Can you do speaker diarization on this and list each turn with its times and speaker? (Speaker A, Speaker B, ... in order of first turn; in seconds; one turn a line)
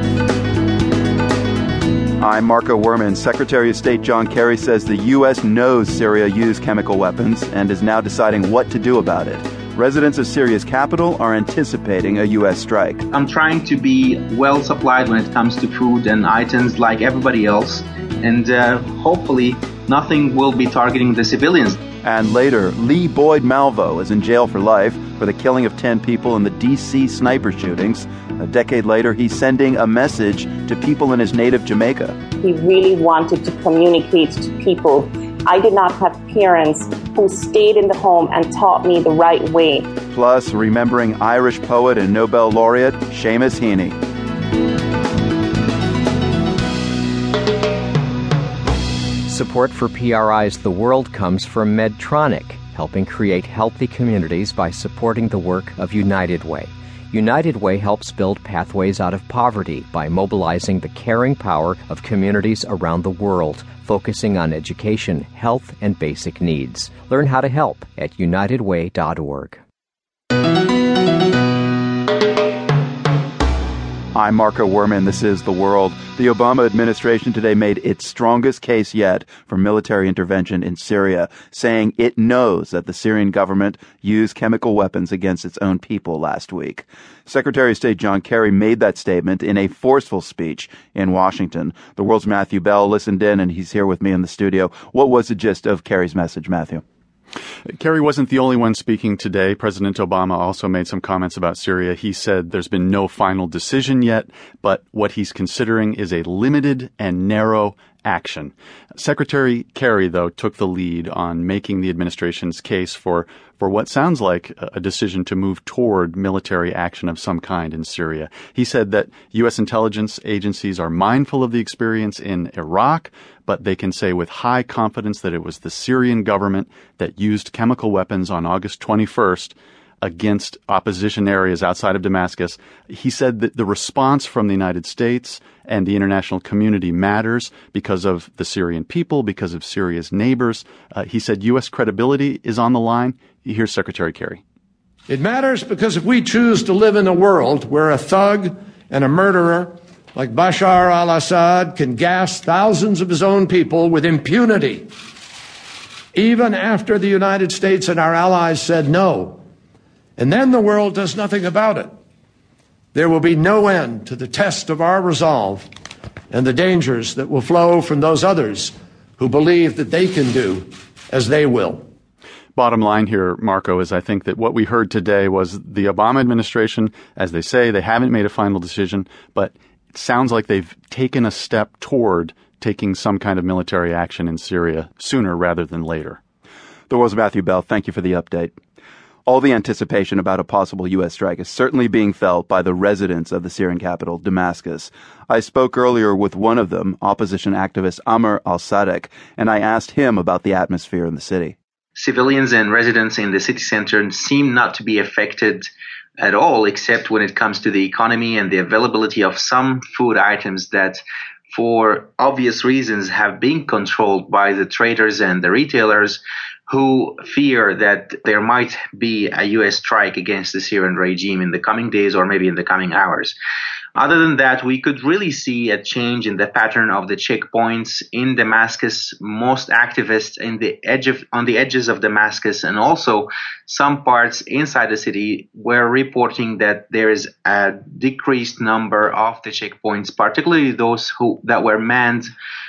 Speaker A: 2.2-13.1
Speaker B: 13.1-21.8
Speaker A: 22.0-32.2
Speaker C: 32.4-39.9
Speaker A: 40.1-44.0
Speaker D: 49.2-69.6
Speaker A: 74.1-96.8
Speaker E: 97.7-144.4
Speaker F: 145.1-154.9
Speaker F: 156.1-159.4
Speaker F: 160.2-161.9
Speaker F: 162.9-165.7
Speaker F: 166.3-171.8
Speaker E: 172.6-186.2
Speaker A: 186.9-188.6
Speaker A: 189.3-201.6
Speaker B: 202.0-205.7
Speaker B: 206.2-223.3
Speaker B: 224.0-242.3